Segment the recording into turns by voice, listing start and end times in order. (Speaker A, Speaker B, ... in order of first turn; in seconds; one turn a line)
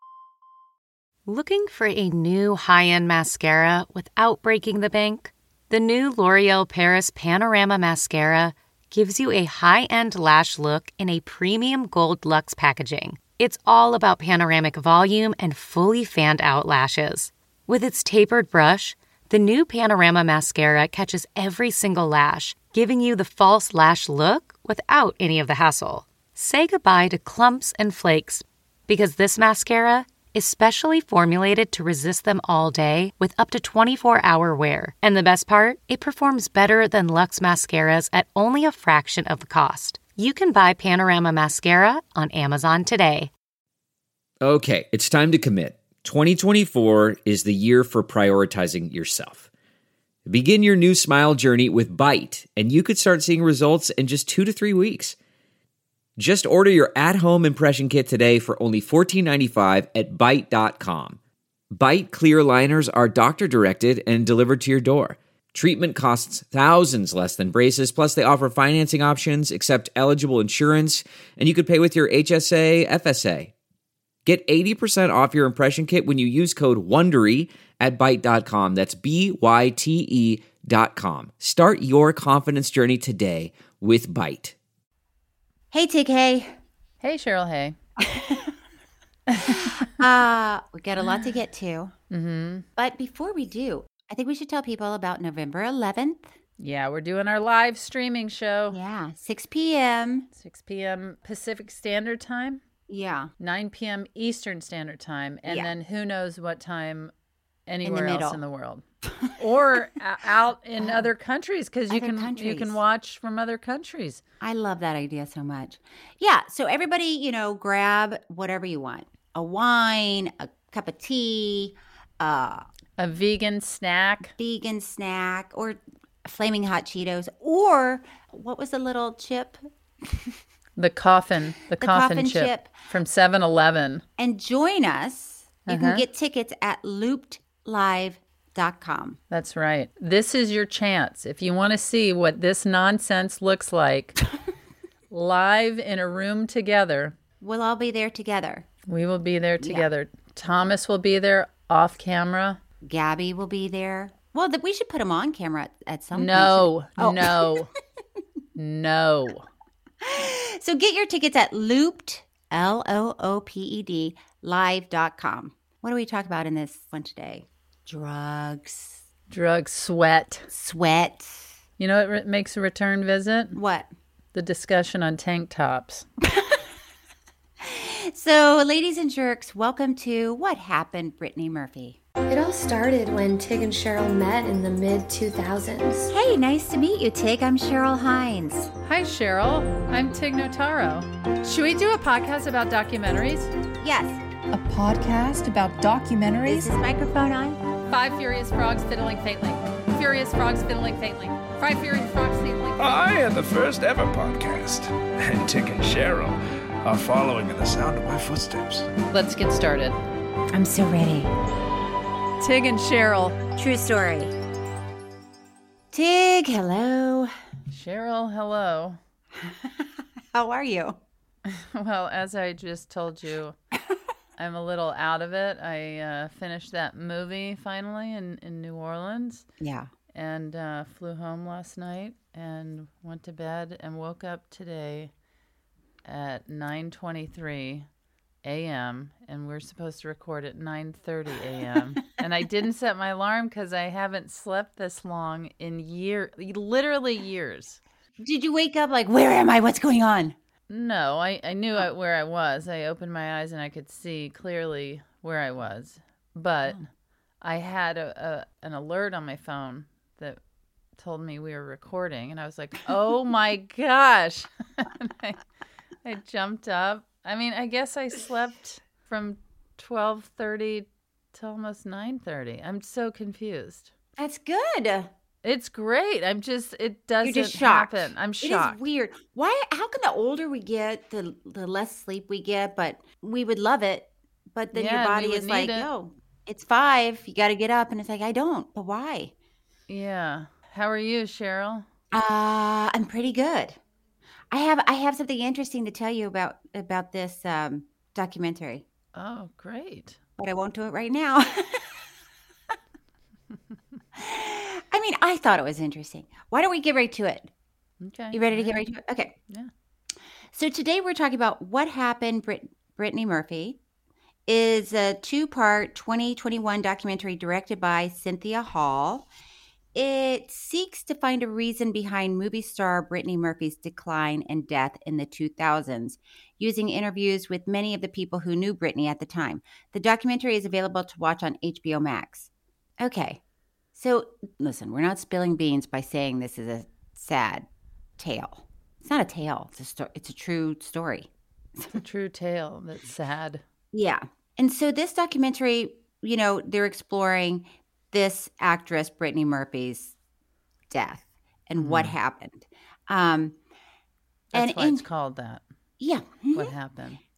Speaker A: 1.2-43.3
Speaker B: 44.4-49.5
Speaker B: 50.3-55.1
Speaker B: 56.2-61.2
Speaker B: 61.7-73.5
Speaker B: 74.2-84.5
Speaker C: 85.7-86.5
Speaker D: 87.0-87.8
Speaker C: 88.0-88.5
Speaker D: 89.3-89.7
Speaker C: 89.4-91.9
Speaker D: 92.1-92.7
Speaker C: 92.8-96.3
Speaker D: 96.6-98.8
Speaker C: 98.7-100.3
Speaker D: 100.3-102.6
Speaker C: 102.9-103.3
Speaker D: 103.4-107.1
Speaker C: 105.5-105.7
Speaker D: 107.7-108.8
Speaker C: 107.8-108.4
Speaker D: 109.4-114.2
Speaker C: 110.8-111.1
Speaker C: 111.9-112.8
Speaker C: 114.4-122.7
Speaker D: 123.0-124.3
Speaker C: 124.4-130.3
Speaker D: 130.8-134.0
Speaker C: 131.8-132.7
Speaker C: 134.2-139.2
Speaker D: 135.7-136.0
Speaker D: 139.3-144.2
Speaker D: 145.1-147.1
Speaker C: 147.4-148.7
Speaker D: 148.9-152.6
Speaker C: 152.8-157.6
Speaker D: 156.1-157.7
Speaker D: 158.6-159.5
Speaker C: 160.0-169.0
Speaker D: 169.3-170.4
Speaker C: 170.5-171.5
Speaker D: 171.8-173.6
Speaker C: 173.5-173.9
Speaker D: 174.3-176.1
Speaker C: 177.6-182.0
Speaker E: 182.3-186.1
Speaker C: 186.1-188.7
Speaker D: 188.8-193.5
Speaker C: 193.8-194.2
Speaker F: 194.5-196.7
Speaker C: 196.4-197.6
Speaker D: 197.9-203.0
Speaker G: 202.8-208.9
Speaker D: 209.1-210.0
Speaker C: 210.5-211.3
Speaker D: 212.4-213.4
Speaker C: 213.6-214.3
Speaker C: 215.9-217.3
Speaker D: 217.7-219.0
Speaker C: 219.4-221.0
Speaker D: 221.4-223.6
Speaker D: 224.4-229.4
Speaker C: 229.6-229.9
Speaker D: 230.1-235.1
Speaker D: 236.0-237.9
Speaker D: 238.4-247.8
Speaker C: 248.2-250.3
Speaker D: 250.7-256.9
Speaker D: 257.4-260.4
Speaker D: 261.0-265.4
Speaker D: 266.0-273.9
Speaker C: 274.2-275.1
Speaker D: 275.4-278.8
Speaker C: 277.2-289.3
Speaker D: 284.7-285.9
Speaker D: 289.9-291.9
Speaker C: 292.1-293.8
Speaker C: 294.5-298.8
Speaker D: 299.1-300.2
Speaker C: 300.4-301.9
Speaker C: 304.1-307.5
Speaker D: 308.0-308.8
Speaker C: 308.3-309.3
Speaker C: 310.5-313.8
Speaker C: 314.5-319.3
Speaker C: 319.9-333.4
Speaker C: 333.9-337.6
Speaker C: 338.2-341.3
Speaker D: 341.9-343.6
Speaker C: 343.9-350.1
Speaker C: 350.9-353.6
Speaker D: 351.8-352.1
Speaker D: 354.5-355.6
Speaker C: 354.5-355.0
Speaker C: 356.0-356.7
Speaker D: 356.5-357.2